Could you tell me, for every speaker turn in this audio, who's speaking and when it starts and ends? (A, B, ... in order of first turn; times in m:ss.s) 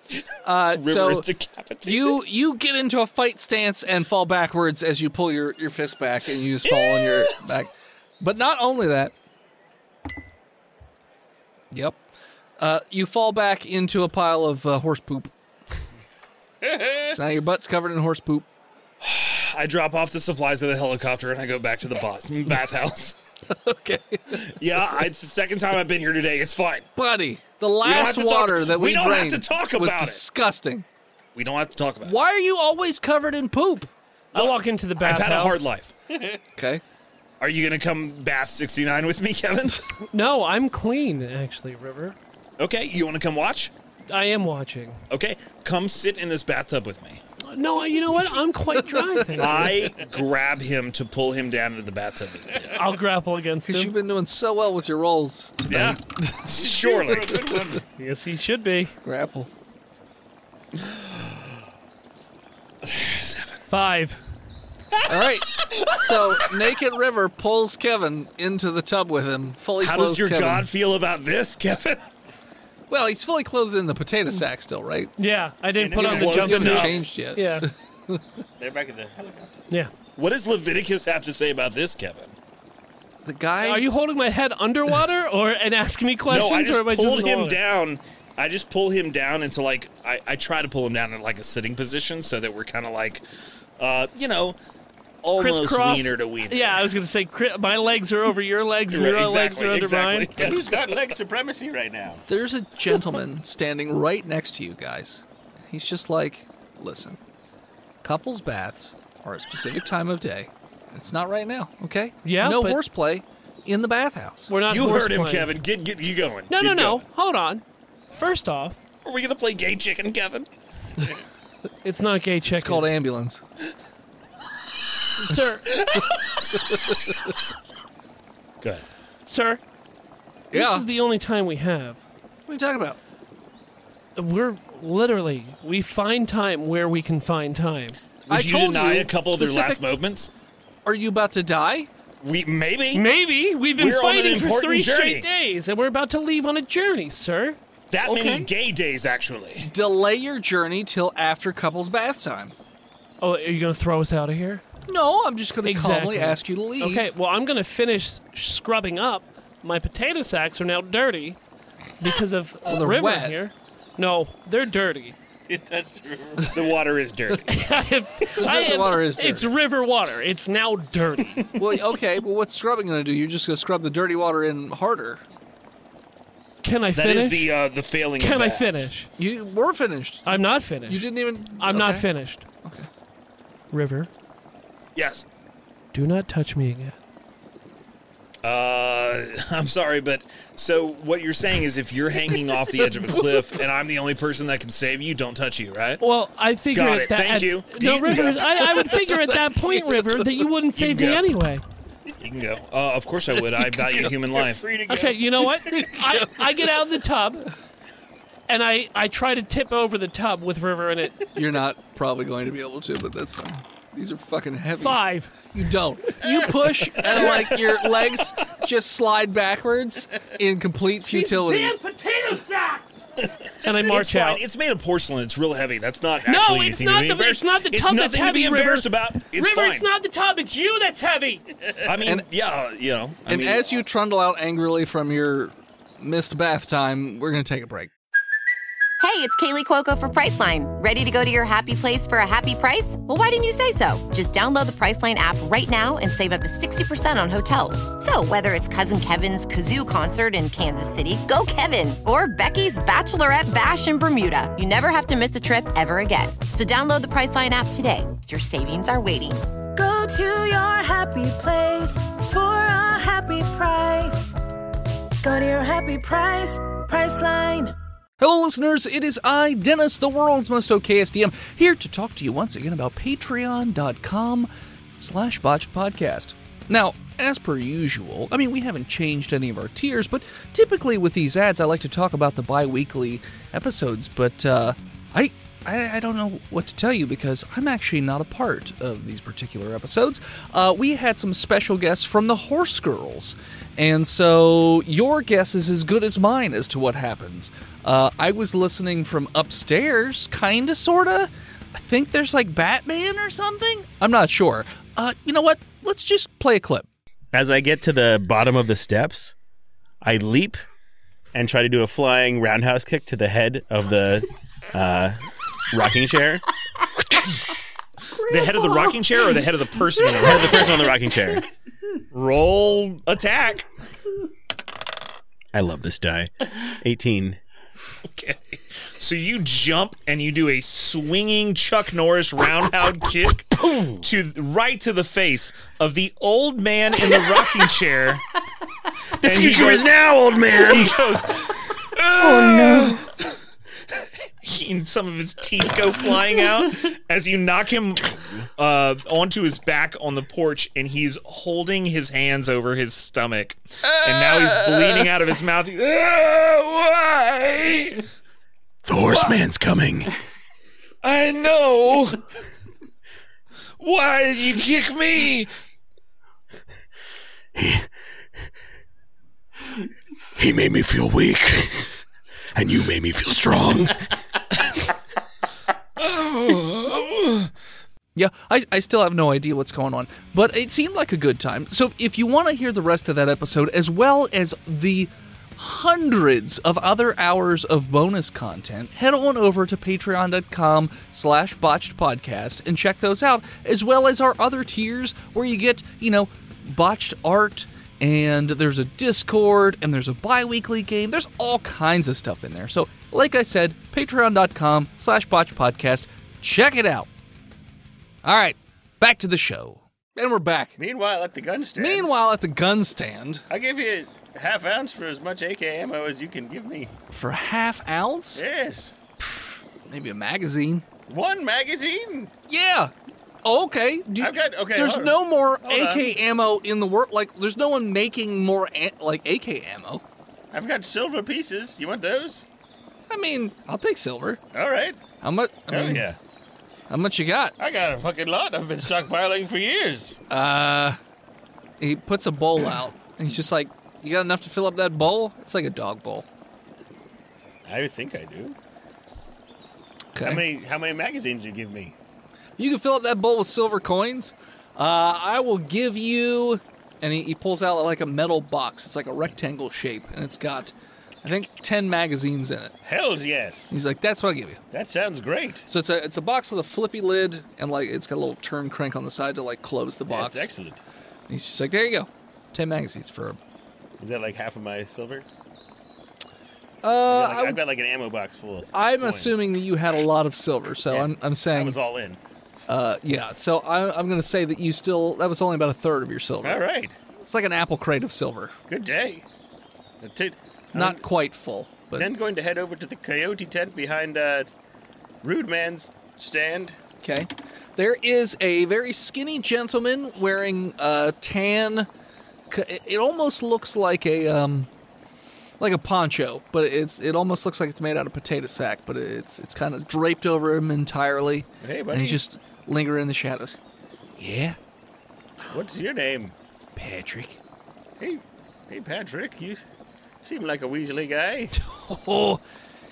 0:00.2-0:02.2 A
0:00.4-0:01.3 B
0:01.8-0:09.1 B
0:06.6-0:07.4 A
0:11.7-0:12.0 B
0:12.6-0:15.3 B
0:16.6-0:17.2 C
0:17.0-0:18.5 B
0:19.0-0:23.2 A
0:23.5-0:24.5 B
0:24.3-0:26.9 A
0:27.0-0:30.8 B
0:27.8-0:30.2 A
0:31.3-0:32.2 A
0:32.0-0:33.9 B
0:34.3-0:35.7 D
0:34.3-0:35.9 A
0:36.1-0:36.4 C
0:36.6-0:36.8 B
0:37.4-0:39.8 A
0:40.1-0:42.2 D
0:42.6-0:43.7 A
0:44.1-0:45.0 D
0:45.1-0:47.2 A
0:47.4-0:49.8 D
0:48.8-0:49.6 B
0:49.4-0:52.8 A
0:52.7-0:53.9 D
0:53.6-0:56.5 B
0:55.7-0:57.6 A
0:56.5-0:57.8 C
0:58.0-0:58.9 D
0:59.0-0:59.5 B
1:00.8-1:01.6 A
1:02.8-1:03.6 A
1:03.7-1:04.2 D
1:04.9-1:06.5 A
1:05.0-1:10.7 B
1:09.8-1:12.0 A
1:12.9-1:15.1 B
1:15.2-1:17.7 D
1:15.8-1:17.0 C
1:16.0-1:17.0 A
1:16.0-1:18.4 B
1:18.6-1:19.6 C
1:20.2-1:22.3 A
1:23.2-1:23.9 B
1:23.6-1:27.6 D
1:26.3-1:33.2 A
1:33.8-1:34.6 A
1:35.2-1:36.9 A
1:35.4-1:40.4 D
1:38.9-1:41.0 A
1:40.4-1:42.2 C
1:42.3-1:47.2 B
1:48.0-1:54.5 B
1:52.2-1:52.8 D
1:54.5-1:55.5 D
1:54.7-1:57.0 A
1:56.5-1:58.8 D
1:59.0-2:00.5 A
2:01.8-2:02.9 D
2:02.4-2:03.4 B
2:05.2-2:05.7 D
2:05.8-2:06.6 A
2:09.3-2:09.6 D
2:10.5-2:10.9 B
2:10.5-2:12.0 D
2:12.5-2:13.0 B
2:14.2-2:18.0 D
2:18.3-2:19.8 B
2:18.3-2:20.3 A
2:20.8-2:21.9 B
2:22.2-2:23.1 A
2:22.9-2:27.6 D
2:23.8-2:25.3 A
2:27.9-2:29.7 A
2:28.0-2:28.5 B
2:29.6-2:32.5 B
2:33.2-2:34.6 D
2:34.9-2:37.1 B
2:35.6-2:41.4 D
2:42.0-2:45.2 D
2:42.6-2:43.4 B
2:45.5-2:46.8 C
2:46.5-2:47.7 A
2:47.5-2:51.5 D
2:48.4-2:49.5 B
2:51.5-2:55.2 B
2:56.6-2:57.5 D
2:56.9-2:58.9 A
2:58.2-2:59.1 D
2:59.2-3:02.1 B
3:00.2-3:02.4 D
3:02.6-3:02.9 B
3:03.7-3:04.1 D
3:04.9-3:05.2 A
3:05.9-3:07.0 D
3:08.4-3:16.0 A
3:16.0-3:21.6 D
3:16.7-3:19.0 A
3:18.8-3:20.3 B
3:20.8-3:21.3 A
3:22.2-3:24.7 A
3:23.8-3:25.9 C
3:24.9-3:27.5 D
3:25.7-3:26.5 B
3:28.5-3:31.2 D
3:31.3-3:41.8 B
3:34.8-3:35.3 D
3:37.1-3:37.5 A
3:41.1-3:43.0 D
3:43.2-3:49.9 A
3:43.6-3:44.4 D
3:46.2-3:51.5 D
3:51.8-3:53.8 A
3:52.0-3:52.3 B
3:53.2-3:57.9 B
3:59.0-4:19.4 E
4:19.8-4:24.4 F
4:25.2-4:27.8 F
4:28.2-5:06.9 B
5:07.3-5:09.3 C
5:10.0-5:10.6 C
5:11.3-5:16.4 C
5:18.2-5:20.9 A
5:20.1-5:21.4 C
5:22.1-5:23.7 A
5:25.5-5:27.4 C
5:28.0-5:38.2 A
5:39.2-5:43.4 A
5:39.2-5:40.9 C
5:43.9-5:58.0 A
5:58.8-6:00.1 G
5:59.1-5:59.4 A
6:01.0-6:02.3 A
6:03.8-6:05.5 A
6:07.6-6:07.9 G
6:10.4-6:11.9 G
6:12.5-6:14.1 G
6:16.0-6:17.5 A
6:18.1-6:47.1 B
6:48.2-6:50.8 B
6:50.8-6:52.1 C
6:51.8-6:53.4 B
6:53.5-6:56.9 C
6:57.1-6:58.4 B
6:58.4-6:58.9 C
6:59.2-7:00.8 B
7:01.1-7:02.3 C
7:02.5-7:02.9 B
7:03.4-7:10.0 B
7:04.2-7:06.2 C
7:10.5-7:12.5 C
7:13.1-7:14.4 B
7:14.5-7:15.0 C
7:15.2-7:16.1 B
7:15.7-7:16.2 C
7:16.9-7:17.5 B
7:17.6-7:20.2 C
7:20.3-7:21.0 B
7:21.8-7:26.2 B
7:27.6-7:28.6 C
7:30.1-7:30.4 B
7:30.2-7:32.0 C
7:32.6-7:42.7 B
7:42.8-7:43.7 C
7:43.7-7:44.6 B
7:44.7-7:45.6 C
7:45.6-7:50.5 B
7:50.1-7:50.8 C
7:51.3-7:53.4 B
7:54.0-7:55.2 C
7:56.8-7:57.6 B
7:57.1-7:59.4 C
7:58.7-8:01.8 B
8:00.9-8:02.2 C
8:02.7-8:06.6 B
8:06.4-8:06.9 C
8:07.2-8:08.5 B
8:08.7-8:09.2 C
8:10.0-8:11.1 C
8:10.7-8:12.1 B
8:11.9-8:14.5 C
8:15.2-8:16.8 C
8:17.0-8:21.9 B
8:22.5-8:24.7 B
8:25.6-8:33.6 B
8:31.6-8:32.2 C
8:34.2-8:34.6 B
8:35.5-8:36.4 C
8:36.8-8:37.4 B
8:38.0-8:39.6 C
8:40.2-8:41.5 C
8:41.5-8:42.4 B